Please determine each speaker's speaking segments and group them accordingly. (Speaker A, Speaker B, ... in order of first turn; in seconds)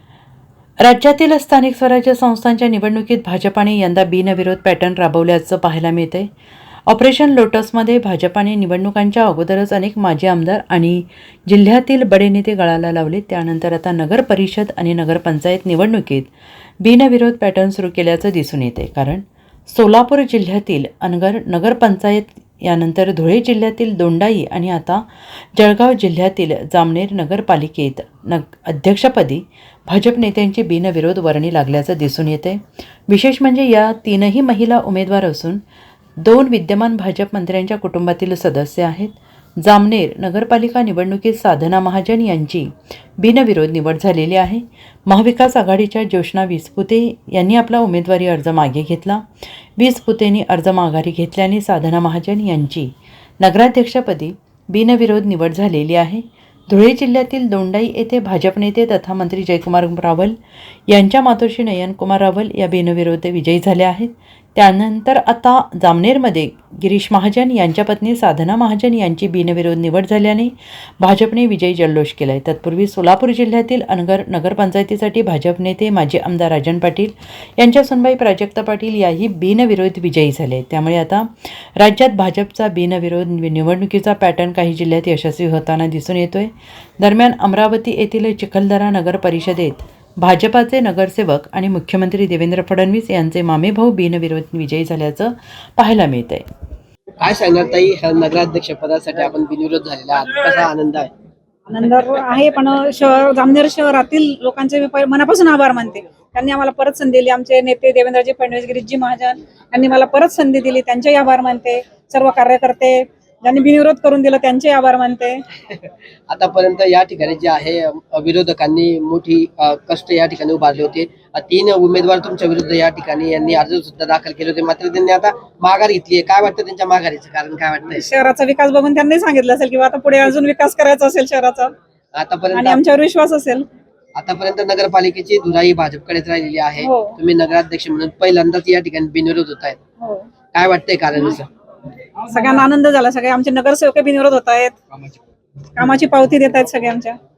Speaker A: 0.8-6.3, 6.9-16.3, 16.8-35.6, 36.2-49.2, 49.8-60.4, 60.9-96.5
Speaker B: 97.2-101.1, 115.7-128.0, 132.2-132.8, 134.2-139.8, 140.5-141.5
Speaker C: 101.7-115.4, 128.0-131.7, 132.5-133.7, 136.8-137.1, 140.0-140.3, 142.3-144.7, 145.8-147.2